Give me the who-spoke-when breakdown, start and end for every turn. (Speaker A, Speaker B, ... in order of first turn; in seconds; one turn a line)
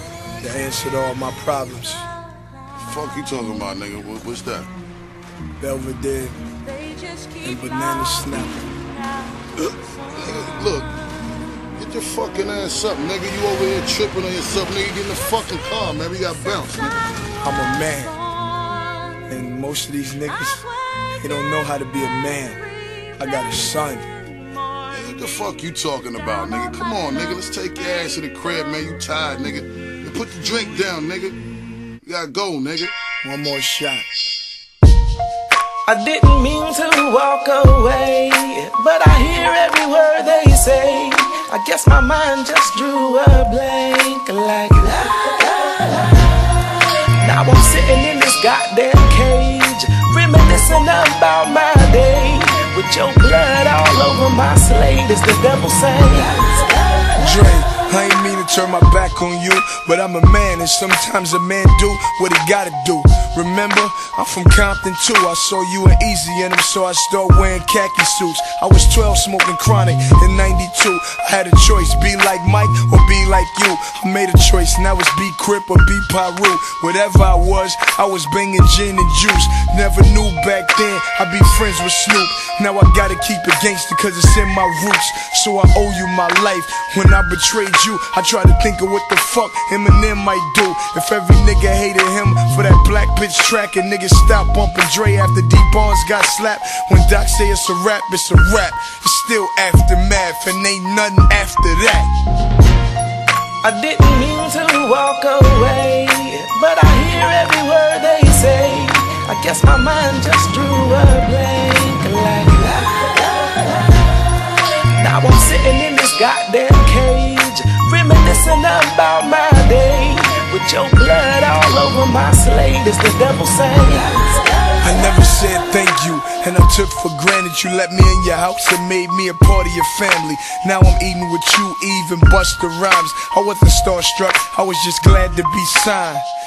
Speaker A: 0.4-2.1
Speaker B: 2.8-4.7
Speaker A: 5.6-6.4
Speaker A: 7.4-8.8
Speaker B: 10.1-11.0
Speaker B: 11.8-17.0
Speaker A: 17.4-18.2
Speaker A: 19.3-20.7
Speaker A: 21.2-22.6
Speaker A: 23.1-24.1
Speaker B: 24.9-31.4
Speaker B: 32.0-32.9
Speaker A: 33.2-34.1
Speaker C: 35.9-46.1
Speaker C: 47.2-56.7
Speaker A: 57.2-102.1
Speaker C: 103.6-113.7
Speaker C: 114.9-124.4
Speaker A: 124.8-136.2